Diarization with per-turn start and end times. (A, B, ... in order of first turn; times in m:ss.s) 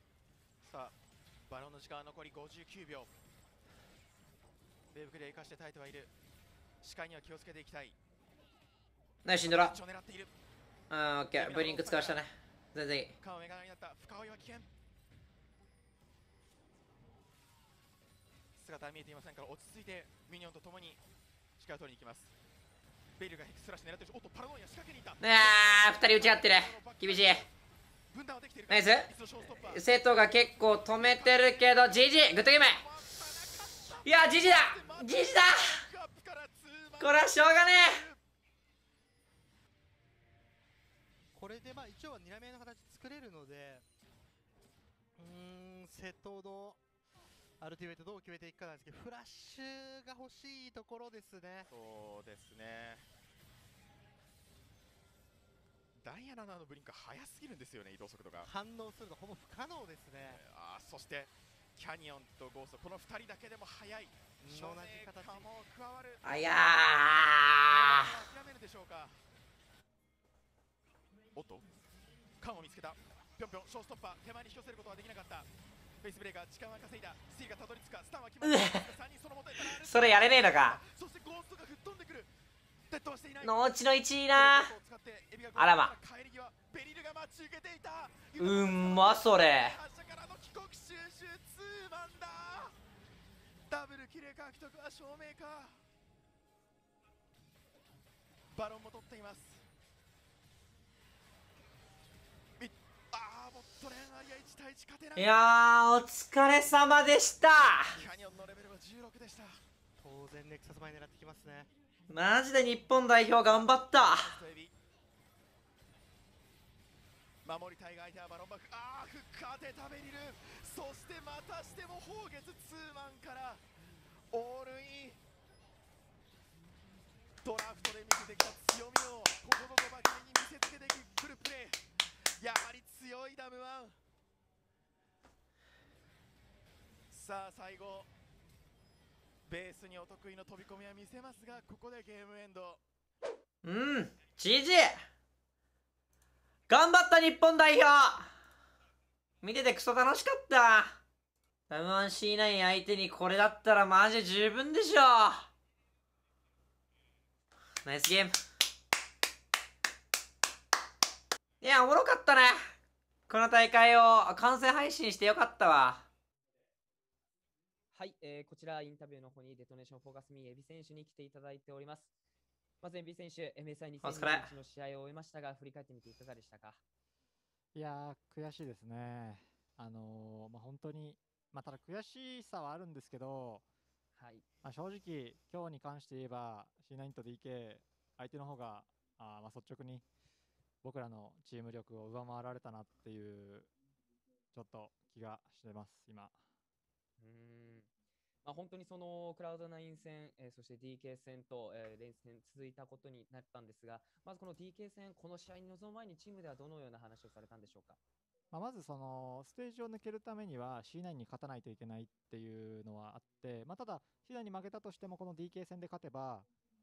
0:00.6-0:03.1 A
0:04.9-0:06.1 A
0:06.8-0:08.0 A
0:09.2-0:09.8 B
0:09.4-0:10.3 A
0:10.9-0:13.1 B
0:11.3-0:12.2 A
0:13.2-0:14.7 A
0:18.6-0:21.0 A
0:21.6-0:22.3 A
0:23.2-0:27.5 A
0:25.2-0:27.4 B
0:28.1-0:38.2 A
0:28.7-0:32.8 B
0:34.0-0:35.8 B
0:37.0-0:38.1 B
0:41.3-0:43.8 C
0:45.2-0:46.8 C
0:47.6-0:51.7 C
0:51.7-0:53.1 A
0:56.0-0:58.5 A
0:58.4-1:00.4 C
1:00.2-1:06.5 A
1:04.5-1:05.5 C
1:06.2-1:08.1 B
1:07.7-1:09.2 A
1:11.3-1:11.7 A
1:12.4-1:15.5 A
1:16.0-1:22.3 A
1:18.4-1:18.9 B
1:19.7-1:20.8 B
1:22.9-1:23.8 A
1:23.4-1:24.7 B
1:24.4-1:32.8 A
1:25.6-1:25.9 B
1:28.4-1:29.8 B
1:33.7-1:35.8 A
1:38.5-1:39.6 A
1:42.6-1:45.3 A
1:45.2-1:48.0 B
1:48.0-1:49.6 A
1:50.0-1:51.7 C
1:52.1-1:54.3 B
1:53.4-1:54.7 A
1:57.4-2:03.6 A
2:04.3-2:05.2 A
2:07.4-2:14.0 A
2:17.1-2:18.1 A
2:19.5-2:22.8 A
2:23.6-2:25.0 B
2:26.7-2:28.3 B
2:29.4-2:31.0 B
2:31.7-2:35.5 B
2:37.8-2:38.4 B
2:41.6-2:42.6 B
2:43.3-2:46.1 B
2:47.9-2:52.1 D
2:52.8-2:56.8 D
2:54.0-2:54.5 B
2:57.7-3:03.6 E
3:04.2-3:04.4 D
3:04.6-3:10.0 E
3:10.8-3:13.7 E
3:14.5-3:16.4 E
3:17.2-3:17.9 D
3:18.4-3:28.0 D
3:28.5-3:36.5 E